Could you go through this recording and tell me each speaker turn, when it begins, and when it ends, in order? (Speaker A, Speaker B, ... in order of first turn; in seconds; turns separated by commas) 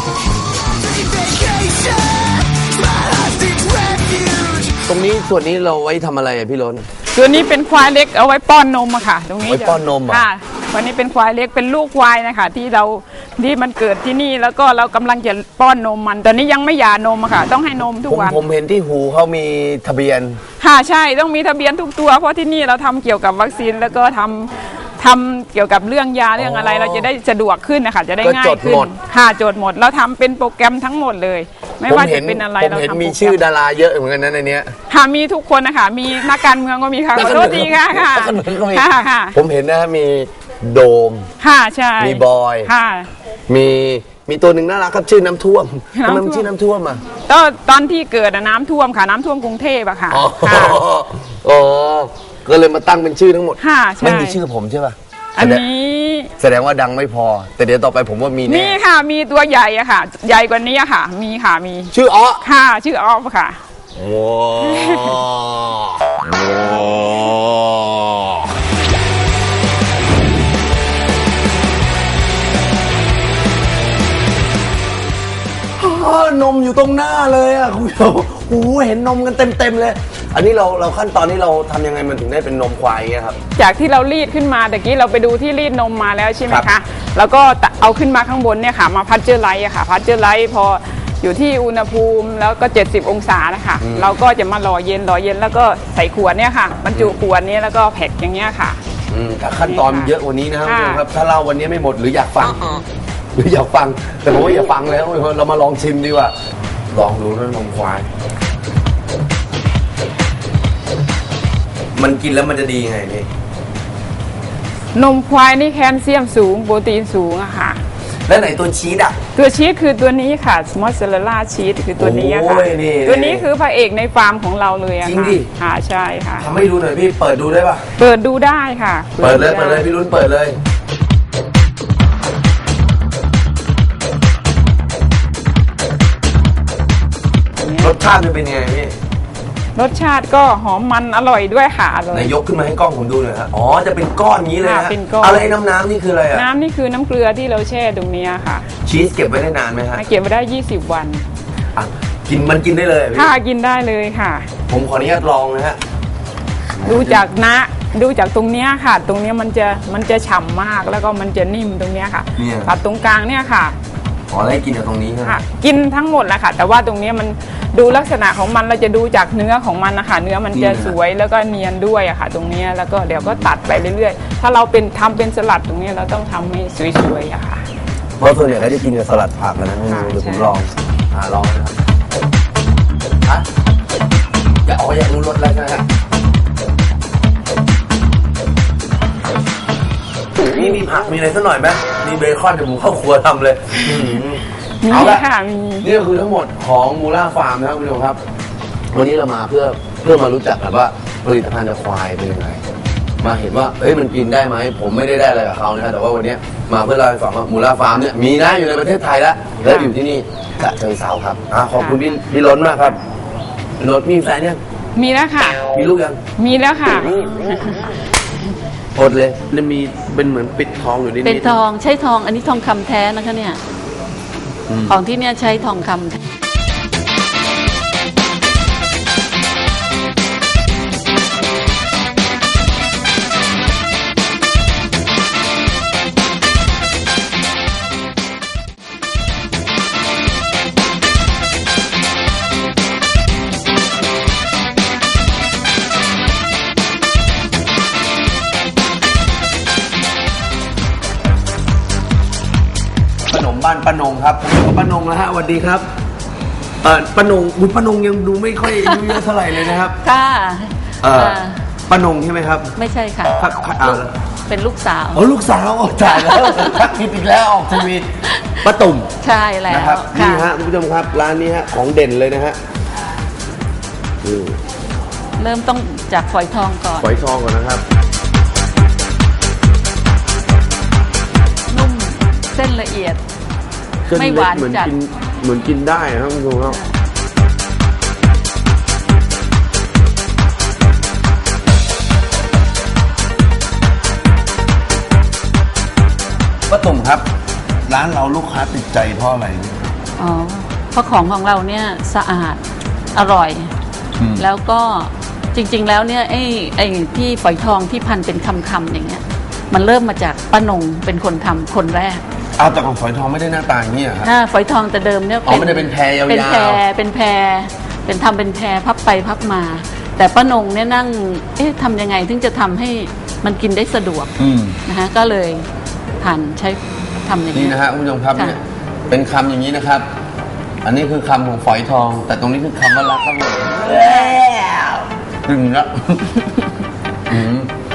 Speaker A: 0.9-2.5, Speaker B: 2.8-4.6, Speaker A: 4.6-6.9, Speaker B: 7.1-18.4, Speaker A: 9.4-10.2, Speaker A: 18.1-20.4, Speaker B: 20.6-33.4, Speaker A: 26.4-27.1, Speaker A: 28.2-28.9, Speaker A: 31.9-34.7, Speaker B: 34.9-39.4, Speaker A: 37.1-41.3, Speaker B: 41.4-43.1, Speaker A: 42.0-42.7, Speaker A: 43.5-47.0, Speaker B: 46.0-46.5, Speaker B: 47.2-50.8, Speaker A: 50.1-55.6, Speaker B: 53.6-54.4, Speaker B: 55.4-56.3, Speaker A: 56.4-58.8, Speaker B: 58.5-63.6, Speaker A: 61.9-62.4, Speaker A: 63.9-68.5, Speaker B: 64.6-65.2, Speaker A: 75.8-83.4, Speaker B: 83.5-98.8, Speaker A: 93.8-94.1, Speaker A: 99.1-102.8, Speaker B: 99.6-100.1, Speaker B: 100.6-101.0, Speaker A: 103.3-106.3, Speaker A: 106.9-108.1, Speaker A: 111.9-113.3, Speaker B: 114.9-117.8, Speaker A: 118.3-119.2, Speaker B: 119.3-126.5, Speaker A: 122.0-123.5, Speaker A: 125.0-125.5, Speaker A: 126.4-127.8, Speaker B: 128.0-129.9, Speaker A: 129.2-130.6, Speaker B: 137.6-137.9, Speaker A: 137.8-138.9, Speaker B: 139.8-142.3, Speaker A: 142.1-146.4, Speaker B: 144.6-145.6, Speaker B: 146.3-148.7, Speaker A: 148.8-150.0, Speaker B: 149.9-151.2, Speaker A: 151.7-153.3, Speaker B: 153.1-154.5, Speaker A: 154.7-155.8, Speaker A: 156.8-157.2, Speaker B: 156.8-163.8, Speaker A: 162.4-162.7, Speaker A: 164.3-165.4, Speaker B: 165.2-177.6, Speaker A: 170.5-170.9, Speaker A: 173.2-173.5, Speaker A: 178.2-181.7, Speaker B: 179.8-180.5, Speaker A: 184.7-185.8, Speaker A: 190.4-195.2, Speaker B: 194.8-195.9, Speaker A: 195.8-198.2, Speaker A: 198.9-202.6, Speaker A: 203.2-213.0, Speaker B: 209.6-209.9, Speaker B: 211.8-212.1, Speaker A: 213.8-214.6, Speaker B: 214.9-215.6, Speaker A: 215.7-216.2, Speaker B: 216.4-217.9, Speaker A: 218.9-221.6, Speaker C: 221.2-223.6, Speaker A: 224.7-225.0, Speaker C: 224.8-226.2, Speaker A: 253.3-255.8, Speaker A: 256.8-260.0, Speaker C: 258.6-261.6, Speaker A: 261.0-262.8, Speaker C: 262.8-265.2, Speaker A: 263.4-264.1, Speaker A: 265.1-268.1, Speaker C: 266.1-266.9, Speaker C: 268.3-268.7, Speaker A: 268.6-269.1, Speaker C: 269.2-270.5, Speaker A: 269.7-272.6, Speaker A: 274.2-274.6, Speaker C: 275.4-277.1, Speaker A: 277.0-277.8, Speaker C: 281.7-283.2, Speaker A: 284.1-286.8, Speaker C: 284.1-284.9, Speaker C: 286.6-286.9, Speaker A: 296.7-297.3, Speaker A: 297.9-299.8, Speaker C: 300.2-302.6, Speaker C: 303.1-303.7, Speaker A: 304.2-304.5, Speaker C: 304.4-312.2, Speaker A: 312.6-314.3, Speaker C: 314.2-325.7, Speaker A: 315.4-316.8, Speaker A: 324.4-324.8, Speaker C: 326.2-327.8, Speaker A: 327.5-330.1, Speaker A: 330.8-336.2, Speaker C: 333.9-334.4, Speaker A: 337.3-337.7